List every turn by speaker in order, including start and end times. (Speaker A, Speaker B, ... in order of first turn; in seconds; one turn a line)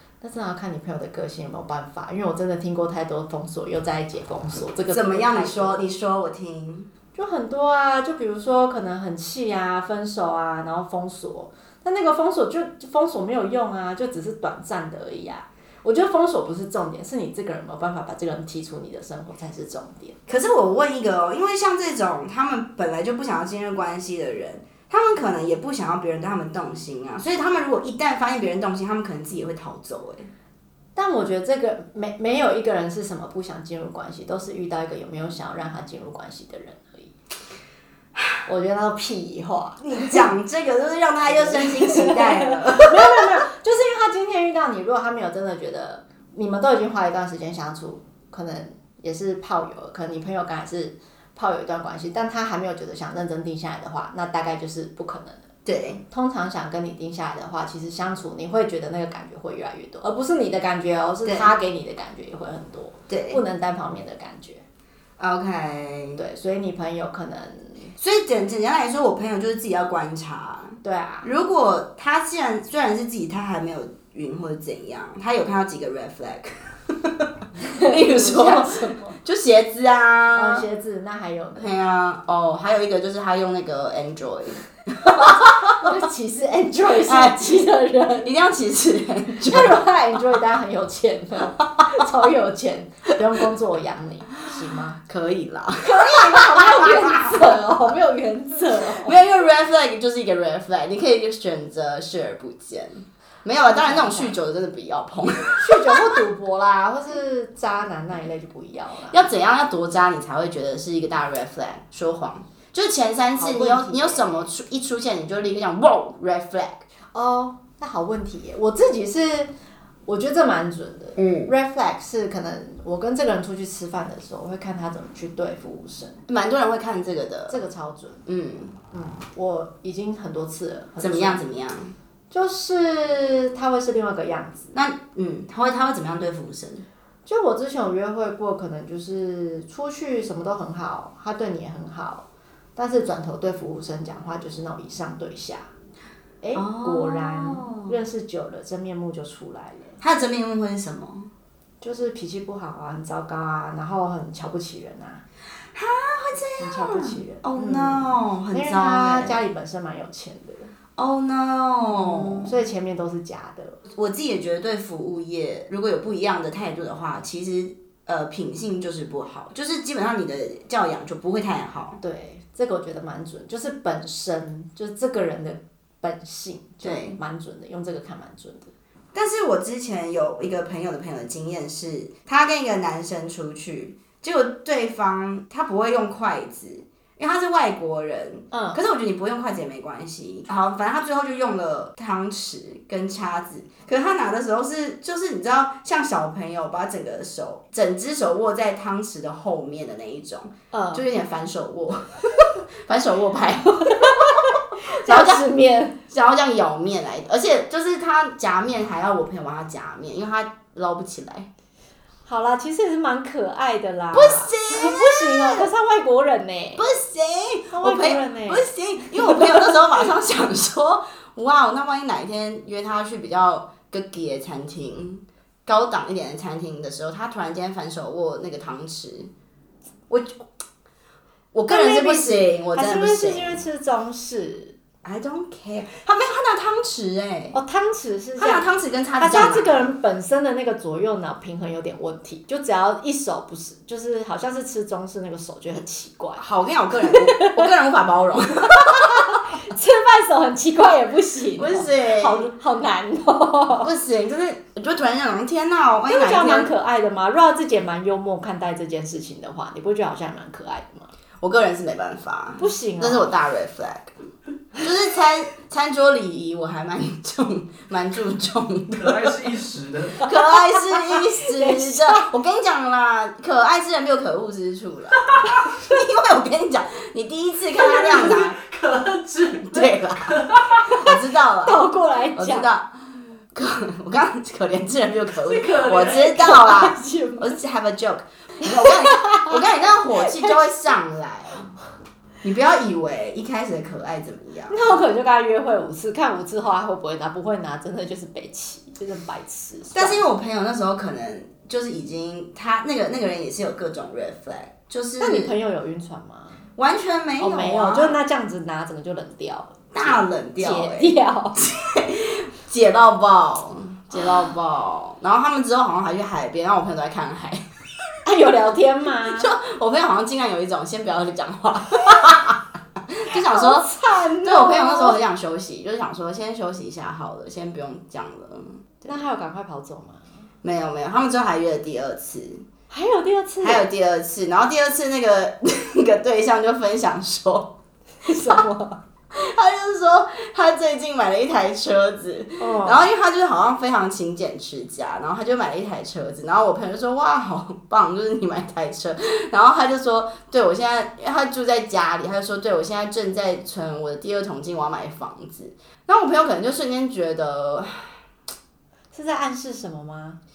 Speaker A: 0.2-5.8
Speaker B: 4.9-6.9
Speaker A: 7.1-20.2
Speaker B: 20.3-30.3
Speaker A: 30.9-37.1
Speaker A: 38.4-40.3
Speaker B: 39.8-43.3
Speaker A: 41.3-55.5
Speaker B: 55.6-56.0
Speaker A: 56.1-64.6
Speaker B: 61.2-61.5
Speaker B: 63.1-63.4
Speaker B: 65.2-66.2
Speaker A: 66.2-67.9
Speaker B: 68.0-80.7
Speaker A: 70.8-71.3
Speaker A: 77.6-79.2
Speaker A: 80.3-81.7
Speaker B: 81.6-85.9
Speaker A: 85.0-88.3
Speaker B: 87.0-87.7
Speaker B: 88.2-89.8
Speaker A: 89.4-95.0
Speaker B: 95.0-97.6
Speaker A: 95.8-99.2
Speaker B: 98.8-106.1
Speaker A: 103.6-104.3
Speaker A: 105.6-109.2
Speaker B: 109.1-116.8
Speaker A: 113.3-114.5
Speaker A: 117.1-119.5
Speaker A: 120.0-126.2
Speaker B: 121.2-121.5
Speaker B: 126.3-127.6
Speaker A: 127.5-128.2
Speaker B: 128.2-128.8
Speaker A: 128.9-131.4
Speaker B: 131.0-131.9
Speaker A: 132.3-134.7
Speaker B: 134.7-136.8
Speaker A: 137.2-145.7
Speaker A: 146.4-150.0
Speaker B: 146.5-147.9
Speaker B: 150.0-151.3
Speaker A: 151.8-155.2
Speaker B: 155.7-159.4
Speaker A: 156.6-160.7
Speaker B: 160.9-162.5
Speaker A: 161.9-163.8
Speaker B: 163.9-172.0
Speaker A: 172.0-178.7
Speaker B: 176.8-177.2
Speaker B: 179.1-205.4
Speaker A: 188.5-188.8
Speaker A: 200.7-201.0
Speaker A: 203.9-206.0
Speaker B: 206.1-211.5
Speaker A: 212.2-216.8
Speaker B: 214.1-215.7
Speaker B: 216.8-229.3
Speaker A: 217.7-219.8
Speaker B: 230.1-230.4
Speaker B: 231.5-233.6
Speaker A: 231.7-234.8
Speaker B: 235.0-237.6
Speaker A: 237.5-238.7
Speaker B: 238.4-239.8
Speaker A: 239.2-246.4
Speaker B: 246.4-249.4
Speaker A: 247.0-247.7
Speaker A: 248.7-253.9
Speaker B: 251.6-252.5
Speaker B: 253.8-256.7
Speaker A: 256.1-261.1
Speaker B: 261.4-264.1
Speaker A: 262.6-263.3
Speaker B: 264.8-269.4
Speaker C: 268.9-270.2
Speaker B: 270.2-278.6
Speaker A: 270.8-272.3
Speaker C: 277.8-280.9
Speaker B: 279.6-281.8
Speaker A: 281.6-282.7
Speaker B: 282.3-282.9
Speaker B: 283.5-291.8
Speaker C: 285.4-286.5
Speaker A: 286.1-287.6
Speaker A: 288.6-289.6
Speaker A: 290.1-290.7
Speaker B: 292.4-294.9
Speaker A: 294.7-300.2
Speaker B: 299.9-305.5
Speaker A: 305.2-306.7
Speaker B: 306.8-308.2
Speaker A: 307.4-311.6
Speaker B: 309.9-317.6
Speaker A: 318.2-319.5
Speaker B: 319.2-329.1
Speaker A: 323.3-325.2
Speaker A: 329.0-330.5
Speaker B: 330.6-332.6
Speaker A: 332.9-333.9
Speaker B: 333.6-337.7
Speaker A: 338.2-339.0
Speaker B: 339.3-358.1
Speaker A: 342.6-343.1
Speaker A: 359.1-360.4